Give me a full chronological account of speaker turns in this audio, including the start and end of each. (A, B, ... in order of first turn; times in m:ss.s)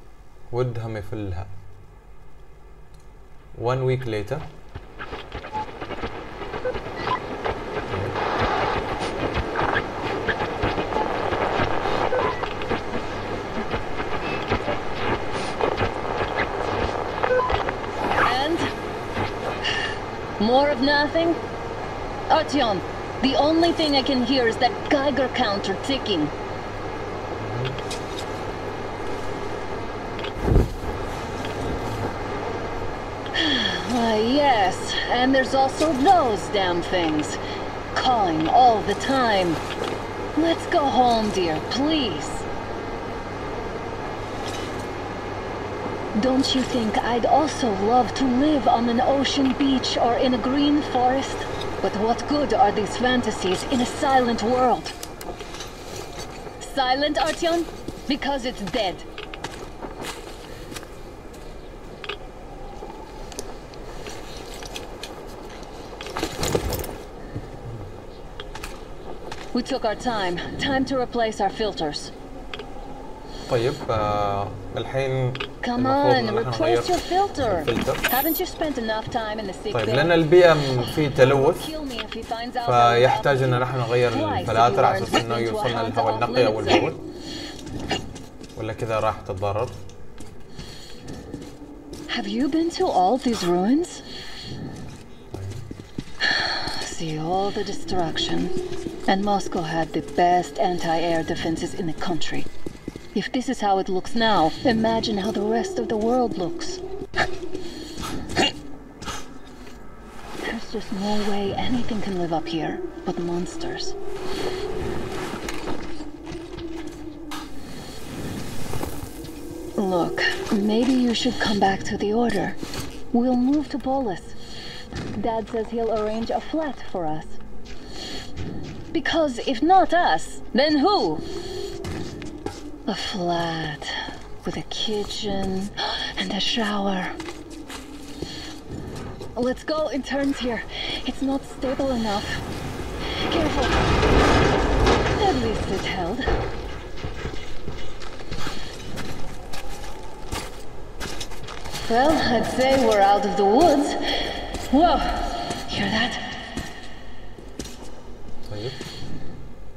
0:00.5-0:01.5 A
0:03.5-0:04.4 A
0:07.9-0:08.1 A
0:18.2-0:18.6 B
0:20.4-0:21.4 B
0:22.3-0:26.3 B
0:27.4-0:27.8 A
0:33.3-0:37.4 B
0:37.9-0:39.6 B
0:40.4-0:42.4 B
0:46.2-0:54.9 B
0:56.6-0:59.0 B
1:09.5-1:12.1 B
1:13.5-1:18.1 A
1:15.6-1:26.9 B
1:19.7-1:21.7 A
1:22.6-1:27.0 A
1:28.6-1:29.8 A
1:32.1-1:34.0 B
1:35.3-1:35.6 A
1:36.2-1:38.5 B
1:39.1-1:42.5 B
1:43.1-1:46.8 B
1:50.4-1:54.0 B
1:59.8-2:02.6 B
2:03.1-2:04.4 B
2:05.2-2:07.4 B
2:08.9-2:11.2 B
2:12.9-2:17.2 B
2:19.3-2:22.4 B
2:23.3-2:23.9 B
2:25.1-2:26.2 B
2:31.9-2:36.2 B
2:38.5-2:38.8 A